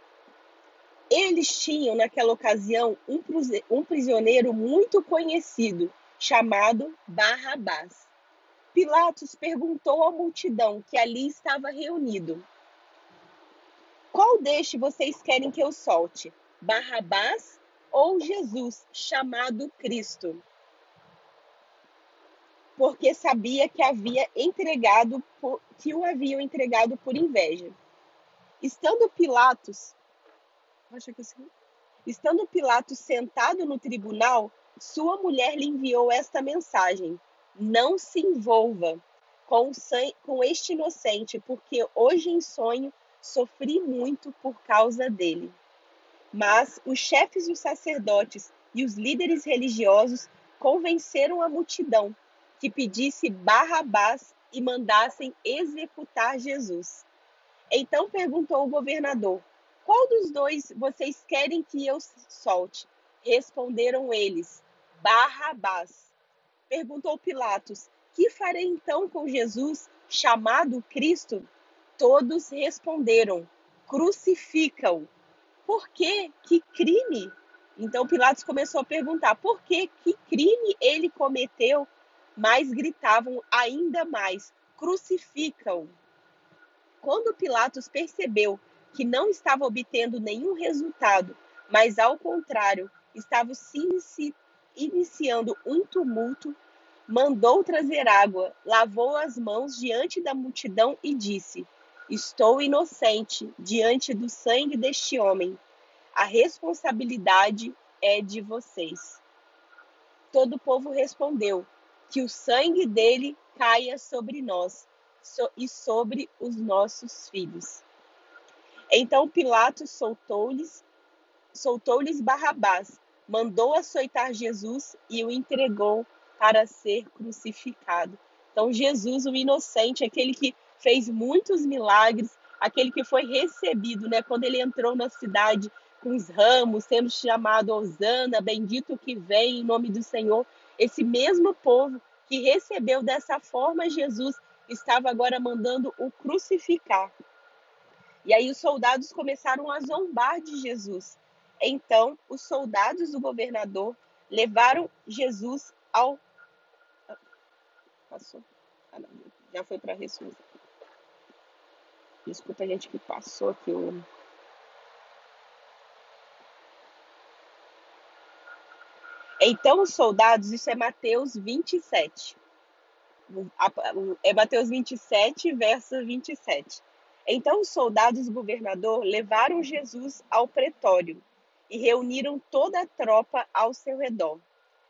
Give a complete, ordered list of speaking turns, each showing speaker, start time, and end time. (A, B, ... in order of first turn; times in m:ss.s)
0:01.1-0:08.1 A
0:08.7-0:12.4 A
0:14.1-0:20.4 A
0:22.8-0:27.8 A
0:28.6-0:30.0 A
0:30.9-0:31.5 A
0:32.0-0:45.6 A
0:46.3-0:57.0 A
0:57.7-1:06.1 A
1:06.7-1:11.5 A
1:12.0-1:15.1 A
1:15.6-1:25.9 A
1:27.0-1:45.6 A
1:46.1-1:49.2 A
1:50.3-1:57.8 A
1:58.9-2:00.8 A
2:01.5-2:27.1 A
2:28.2-2:36.2 A
2:38.1-2:40.4 A
2:42.2-2:44.0 A
2:49.4-2:52.4 A
2:53.3-3:04.4 A